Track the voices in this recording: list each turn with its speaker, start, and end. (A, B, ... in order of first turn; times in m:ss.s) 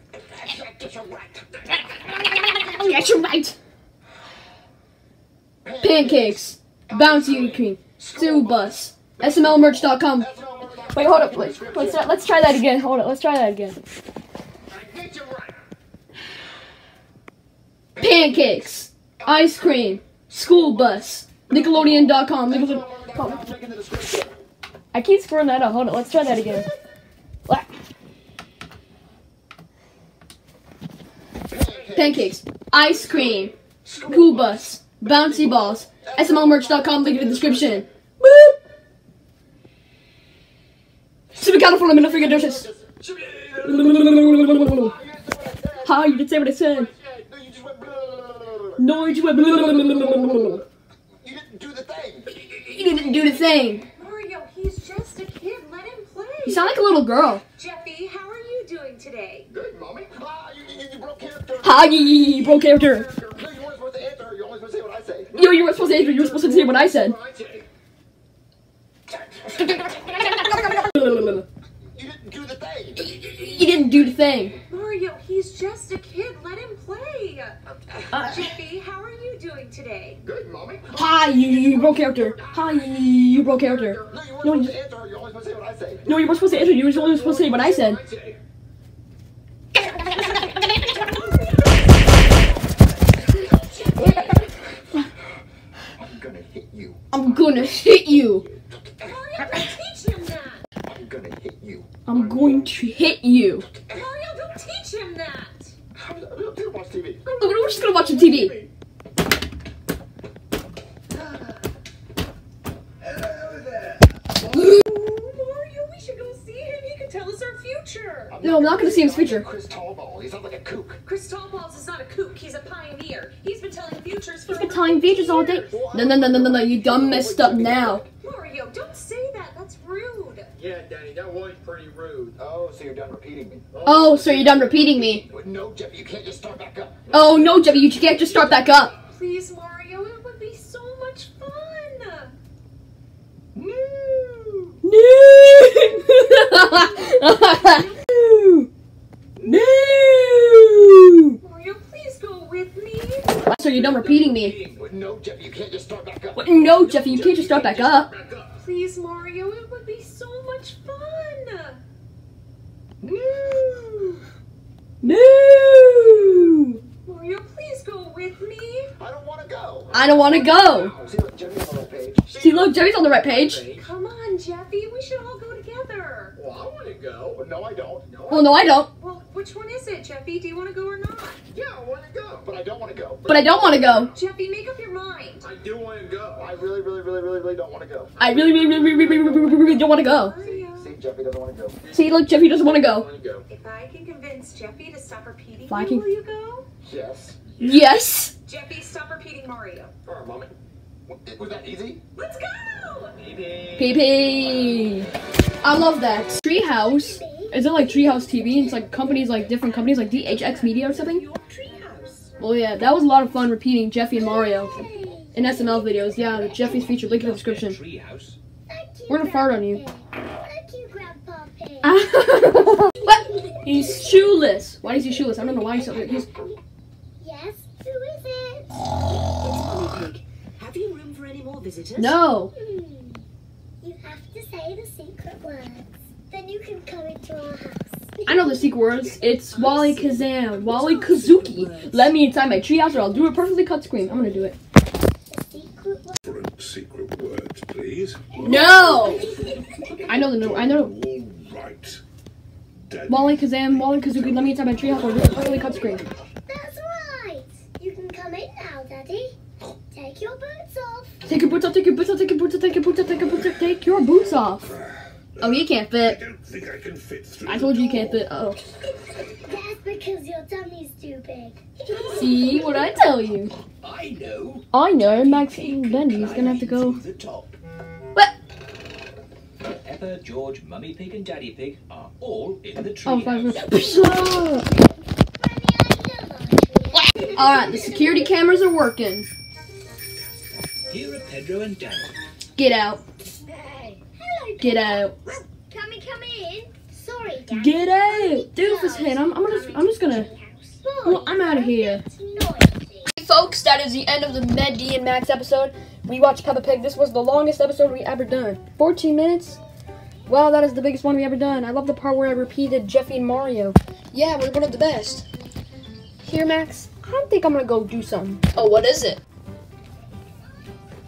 0:00.3-0:01.9 A
0:02.0-0:03.6 B
0:05.6-0:06.4 A
0:05.8-0:13.8 B
0:06.9-0:12.2 A
0:14.7-0:15.6 A
0:18.0-0:18.3 A
0:18.0-0:23.4 B
0:19.2-0:19.7 A
0:21.5-0:24.4 A
0:24.9-0:26.7 B
0:31.5-0:32.3 A
0:31.9-0:38.6 B
0:33.1-0:37.8 A
0:41.3-0:42.7 B
0:41.9-0:46.2 A
0:43.6-0:45.0 B
0:45.8-0:46.9 B
0:47.0-0:49.0 A
0:48.8-0:50.6 B
0:51.2-0:52.4 A
0:52.6-0:53.9 B
0:54.0-0:56.8 C
0:56.4-0:57.4 B
0:57.5-0:59.5 C
0:59.5-1:05.4 A
1:01.6-1:03.1 B
1:05.3-1:07.2 B
1:06.1-1:07.6 A
1:09.8-1:11.4 B
1:11.9-1:13.7 A
1:13.2-1:14.6 B
1:14.7-1:20.2 C
1:18.1-1:18.5 B
1:20.2-1:22.8 A
1:20.9-1:24.8 B
1:23.5-1:26.1 A
1:26.0-1:28.0 B
1:26.2-1:28.4 D
1:30.0-1:32.2 C
1:33.3-1:34.5 A
1:33.3-1:34.5 C
1:34.0-1:34.3 B
1:36.0-1:37.1 A
1:37.1-1:38.5 B
1:38.5-1:39.1 A
1:39.0-1:40.6 C
1:40.8-1:42.8 A
1:42.1-1:43.7 B
1:43.9-1:45.8 C
1:46.0-1:47.2 A
1:47.2-1:48.7 C
1:47.4-1:48.6 B
1:53.0-1:54.0 D
1:54.4-1:58.4 C
1:58.3-2:01.0 A
1:58.4-1:59.5 B
2:01.0-2:06.0 C
2:04.5-2:08.0 B
2:05.7-2:08.1 A
2:08.2-2:10.5 C
2:10.6-2:12.4 E
2:12.3-2:13.7 A
2:13.7-2:14.5 E
2:13.8-2:15.3 B
2:15.0-2:17.4 A
2:17.1-2:18.9 B
2:19.0-2:22.4 C
2:23.6-2:24.7 D
2:24.8-2:28.7 B
2:26.4-2:28.0 C
2:29.4-2:30.3 D
2:29.4-2:31.4 B
2:31.4-2:33.4 C
2:33.4-2:34.6 B
2:33.5-2:34.8 D
2:34.7-2:36.5 A
2:36.4-2:38.1 B
2:36.5-2:38.6 D
2:38.6-2:41.8 C
2:43.0-2:44.2 D
2:45.0-2:46.8 B
2:47.0-2:48.9 C
2:49.0-2:52.4 A
2:49.9-2:50.9 B
2:52.3-2:53.7 B
2:52.4-2:53.8 E
2:53.7-2:56.4 C
2:56.4-2:57.4 E
2:57.3-2:58.1 A
2:58.1-2:58.5 E
2:58.3-2:58.9 B
2:58.3-3:01.4 C
3:01.5-3:02.4 E
3:02.3-3:03.4 A
3:03.3-3:04.1 B
3:03.6-3:05.5 C
3:05.4-3:06.5 E
3:06.4-3:08.3 A
3:08.2-3:10.4 B
3:08.9-3:11.0 C
3:10.4-3:11.8 A
3:11.8-3:13.4 E
3:11.9-3:13.1 B
3:13.5-3:16.7 C
3:15.7-3:16.1 B
3:16.8-3:17.5 A
3:17.6-3:18.3 B
3:17.6-3:19.9 C
3:20.1-3:20.5 A
3:21.1-3:22.0 A
3:22.2-3:23.2 C
3:23.3-3:24.1 D
3:23.8-3:25.1 B
3:25.6-3:31.3 B
3:26.6-3:29.4 F
3:29.4-3:32.3 C
3:32.4-3:34.8 B
3:34.1-3:36.8 F
3:35.3-3:37.8 B
3:36.6-3:38.4 D
3:38.7-3:42.0 F
3:39.1-3:39.8 B
3:41.8-3:46.3 B
3:42.9-3:44.4 F
3:45.3-3:46.6 F
3:47.2-3:48.8 F
3:49.4-3:52.1 G
3:52.0-3:52.5 B
3:52.5-3:53.2 F
3:53.8-3:58.7 F
3:58.3-4:04.6 B
3:59.1-4:02.0 C
4:02.9-4:04.6 F
4:05.3-4:06.2 F
4:06.2-4:12.0 D
4:08.3-4:09.9 F
4:08.4-4:09.4 B
4:10.1-4:11.0 B
4:12.9-4:16.0 D
4:13.1-4:16.1 B
4:15.0-4:19.4 F
4:19.9-4:21.2 F
4:21.2-4:24.8 B
4:24.7-4:28.2 D
4:25.4-4:26.2 B
4:27.5-4:28.6 B
4:29.4-4:33.0 F
4:32.0-4:33.5 B
4:33.8-4:37.6 D
4:34.7-4:37.0 B
4:39.8-4:44.3 D
4:43.0-4:44.7 B
4:45.4-4:48.3 F
4:47.3-4:49.3 B
4:50.9-4:52.1 D
4:52.6-4:53.0 B
4:53.5-5:03.1 F
4:54.6-4:55.2 B
4:57.5-5:00.3 B
5:01.0-5:02.0 B
5:03.1-5:09.6 B
5:10.3-5:15.3 B
5:16.2-5:19.2 B